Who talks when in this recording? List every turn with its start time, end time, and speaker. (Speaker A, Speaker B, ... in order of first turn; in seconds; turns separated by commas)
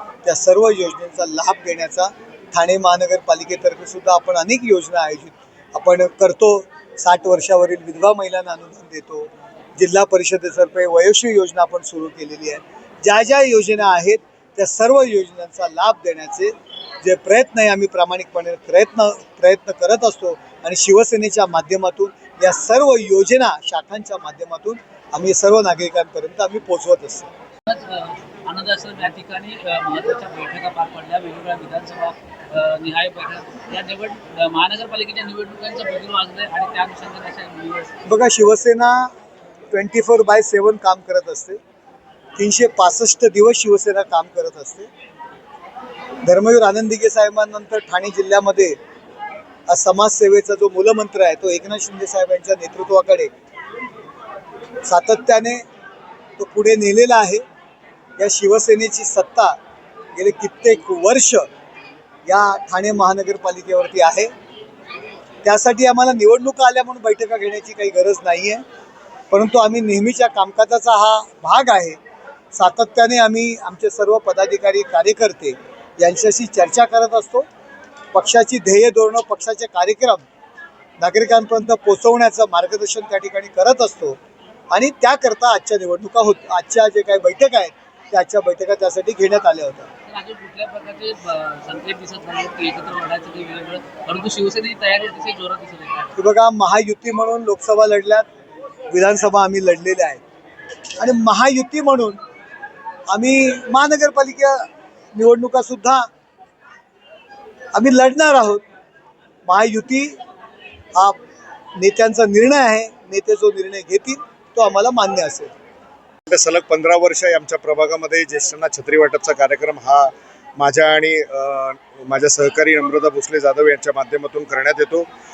Speaker A: 0.2-27.3, Speaker B: 27.7-37.9, Speaker A: 38.1-39.1, Speaker A: 39.7-41.6, Speaker A: 42.4-44.9, Speaker A: 46.2-48.8, Speaker A: 49.7-53.3, Speaker A: 54.9-55.6, Speaker A: 56.4-57.4, Speaker A: 58.2-59.6, Speaker A: 60.1-61.5, Speaker A: 62.3-64.3, Speaker A: 65.4-68.6, Speaker A: 69.3-72.0, Speaker A: 72.5-77.5, Speaker A: 78.1-80.2, Speaker A: 81.0-84.2, Speaker A: 84.7-89.9, Speaker B: 90.1-96.1, Speaker A: 96.2-98.3, Speaker A: 98.9-100.2, Speaker A: 101.0-102.2, Speaker A: 103.1-106.1, Speaker A: 107.7-108.6, Speaker A: 109.5-110.2, Speaker A: 111.8-115.5, Speaker C: 116.3-125.1